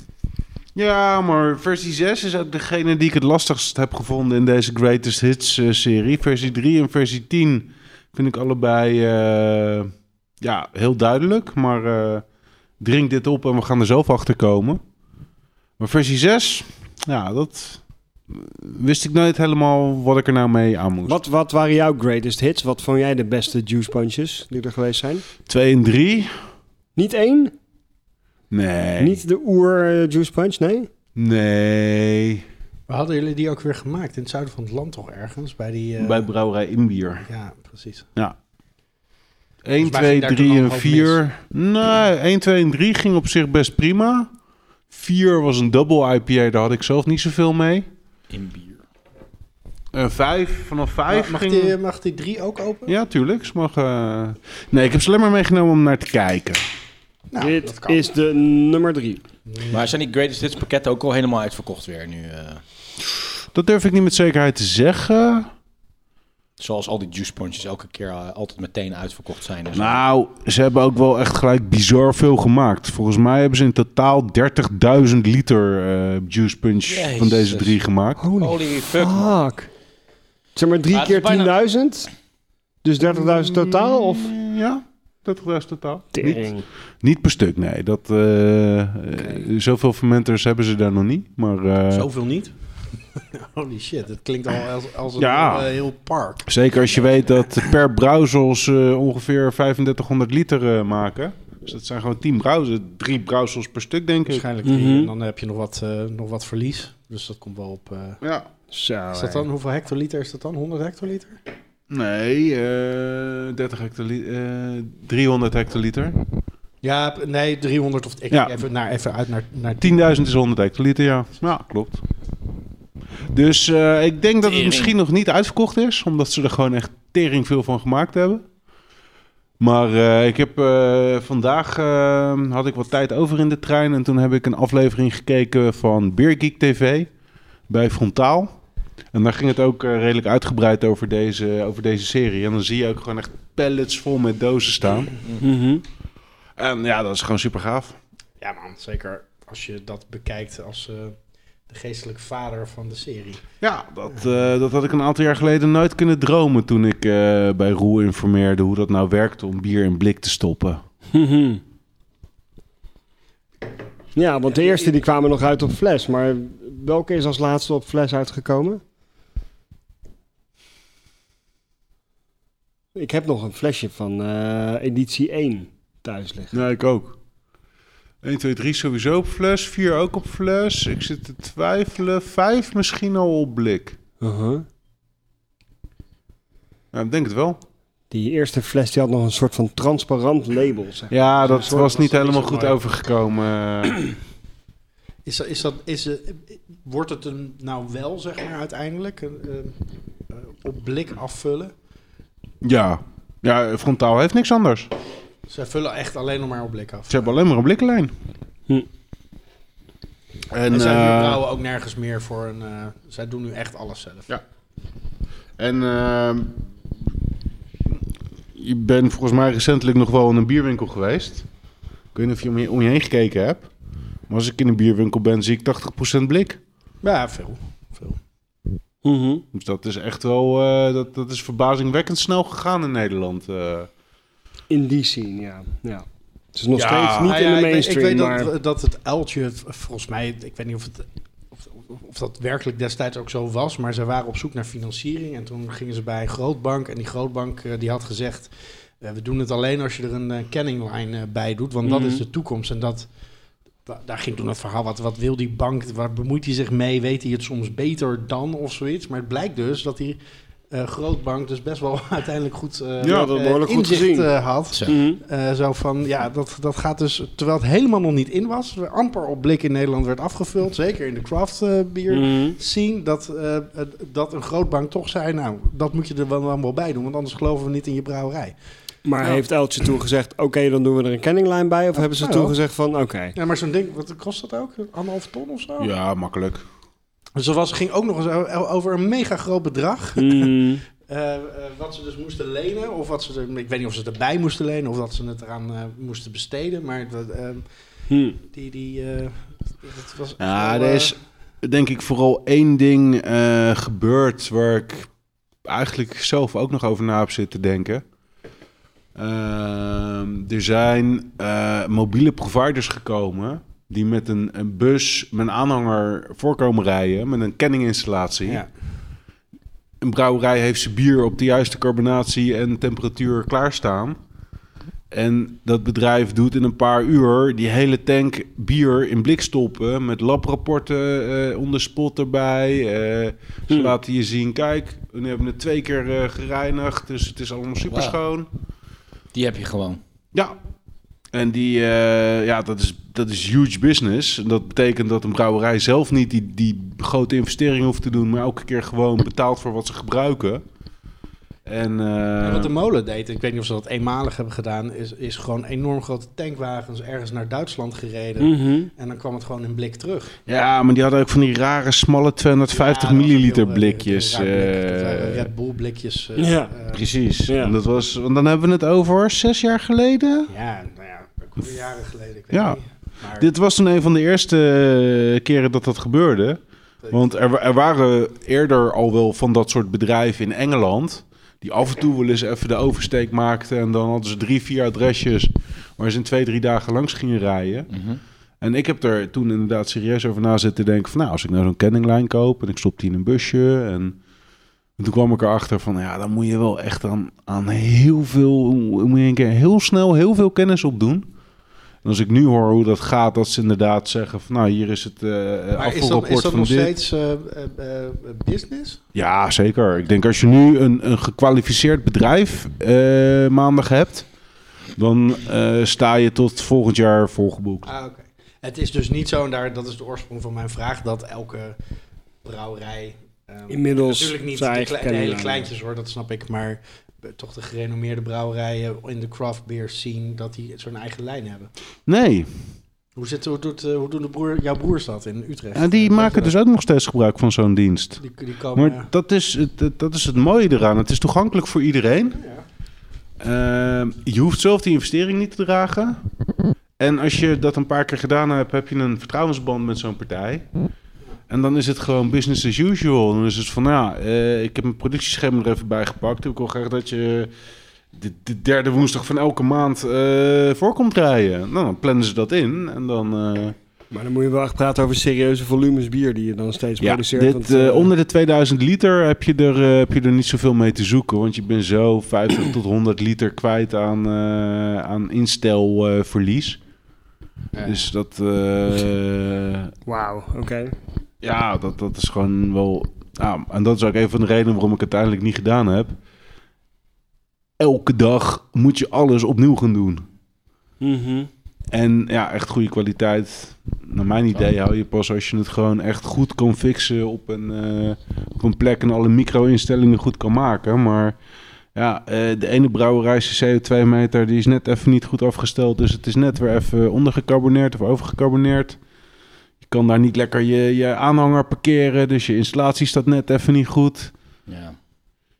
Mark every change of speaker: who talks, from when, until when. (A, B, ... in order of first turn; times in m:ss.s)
0:00.8-0:12.2 A
0:12.8-0:14.8 A
0:15.8-0:17.8 A
0:18.3-0:21.2 A
0:21.0-0:25.2 B
0:25.5-0:26.3 A
0:27.0-0:27.5 B
0:28.5-0:29.2 A
0:29.0-0:30.9 B
0:31.2-0:32.4 A
0:32.9-0:36.2 C
0:36.0-0:37.2 A
0:37.2-0:38.1 C
0:39.6-0:44.3 A
0:39.8-0:41.2 C
0:44.9-0:47.8 A
0:48.3-0:48.8 D
0:49.9-0:51.8 A
0:51.1-0:52.9 C
0:52.9-0:56.6 A
0:57.3-0:58.0 C
0:57.4-0:59.2 B
0:59.5-0:59.8 C
0:59.7-1:02.6 D
1:03.5-1:05.5 A
1:06.6-1:10.0 D
1:09.8-1:18.2 A
1:16.8-1:17.8 D
1:18.2-1:19.7 B
1:18.3-1:19.3 D
1:20.5-1:22.1 B
1:20.9-1:21.5 D
1:22.8-1:24.3 B
1:23.2-1:26.4 A
1:26.1-1:26.6 B
1:27.0-1:32.1 A
1:29.2-1:29.5 B
1:31.9-1:32.5 C
1:33.2-1:36.5 C
1:35.2-1:35.7 A
1:36.5-1:44.5 A
1:44.3-1:48.2 C
1:44.6-1:45.1 B
1:48.2-1:48.5 A
1:48.7-1:49.5 B
1:49.1-1:51.4 C
1:51.9-1:56.2 A
1:56.8-2:00.0 C
1:58.3-1:58.6 A
1:59.8-2:02.0 A
2:03.3-2:08.4 A
2:04.4-2:05.0 D
2:09.6-2:17.1 A
2:17.7-2:18.6 A
2:19.1-2:25.2 A
2:25.4-2:25.8 B
2:26.6-2:28.0 A
2:28.4-2:31.2 C
2:31.7-2:33.4 C
2:33.6-2:40.8 A
2:41.1-2:41.6 B
2:44.2-2:48.8 B
2:53.0-2:56.6 B
2:56.5-2:57.2 A
2:58.2-3:04.0 A
3:04.2-3:04.7 B
3:06.9-3:07.6 A
3:08.1-3:11.9 B
3:11.1-3:14.0 A
3:11.4-3:12.8 C
3:15.2-3:19.8 C
3:20.3-3:21.7 C
3:22.6-3:24.9 A
3:25.5-3:27.3 C
3:27.1-3:28.1 A
3:30.5-3:31.4 A
3:30.7-3:34.3 C
3:35.6-3:36.6 A
3:38.5-3:41.5 A
3:42.1-3:43.7 A
3:44.3-3:46.6 A
3:47.0-3:48.2 C
3:49.0-3:49.4 B
3:49.5-3:53.9 A
3:54.7-3:58.5 B
3:56.7-3:57.4 A
3:57.2-4:01.1 C
4:01.7-4:13.1 C
4:11.8-4:12.2 B
4:13.8-4:20.2 C
4:20.7-4:38.5 C
4:23.0-4:24.3 B
4:23.0-4:23.3 A
4:24.9-4:25.2 B
4:32.1-4:32.6 B
4:39.0-4:43.3 B
4:42.0-4:42.5 C
4:43.3-4:45.9 C
4:45.8-4:46.6 A
4:47.4-4:57.6 C
4:50.2-4:50.8 B
4:58.1-4:58.4 B
4:58.5-5:01.1 C
5:00.4-5:05.1 A
5:05.7-5:08.0 A
5:09.2-5:18.6 A
5:20.0-5:24.2 A
5:25.1-5:38.5 A
5:33.7-5:34.0 B
5:37.9-5:38.2 D
5:39.3-5:40.0 D
5:41.3-5:50.6 A
5:51.7-5:52.7 A
5:52.4-6:00.3 C
5:58.4-5:58.9 B
6:00.5-6:05.5 A
6:02.7-6:07.0 C
6:06.4-6:06.7 B
6:06.9-6:10.5 A
6:07.5-6:07.8 B
6:10.5-6:13.5 C
6:12.5-6:16.6 A
6:17.1-6:27.9 A
6:27.9-6:28.2 D
6:28.6-6:34.2 A
6:35.0-6:41.3 A
6:42.0-6:46.9 A
6:45.8-6:49.0 C
6:49.2-6:54.3 A
6:55.0-6:57.9 A
6:57.8-7:01.8 C
7:02.4-7:11.7 C
7:03.7-7:05.7 B
7:12.1-7:12.5 A
7:13.2-7:16.5 C
7:15.8-7:18.2 A
7:18.2-7:19.1 C
7:18.8-7:22.4 A
7:22.4-7:22.6 C
7:23.4-7:26.2 A
7:27.0-7:30.6 A
7:31.5-7:37.5 A
7:38.1-7:43.8 A
7:44.1-7:48.1 B
7:47.0-7:56.8 A
7:57.8-7:58.1 C
7:57.8-7:59.9 A
8:00.0-8:01.0 B
8:01.4-8:06.2 A
8:07.8-8:10.2 A
8:11.0-8:11.5 B
8:11.9-8:21.3 A
8:22.0-8:29.0 A
8:29.8-8:34.3 A
8:34.7-8:35.0 D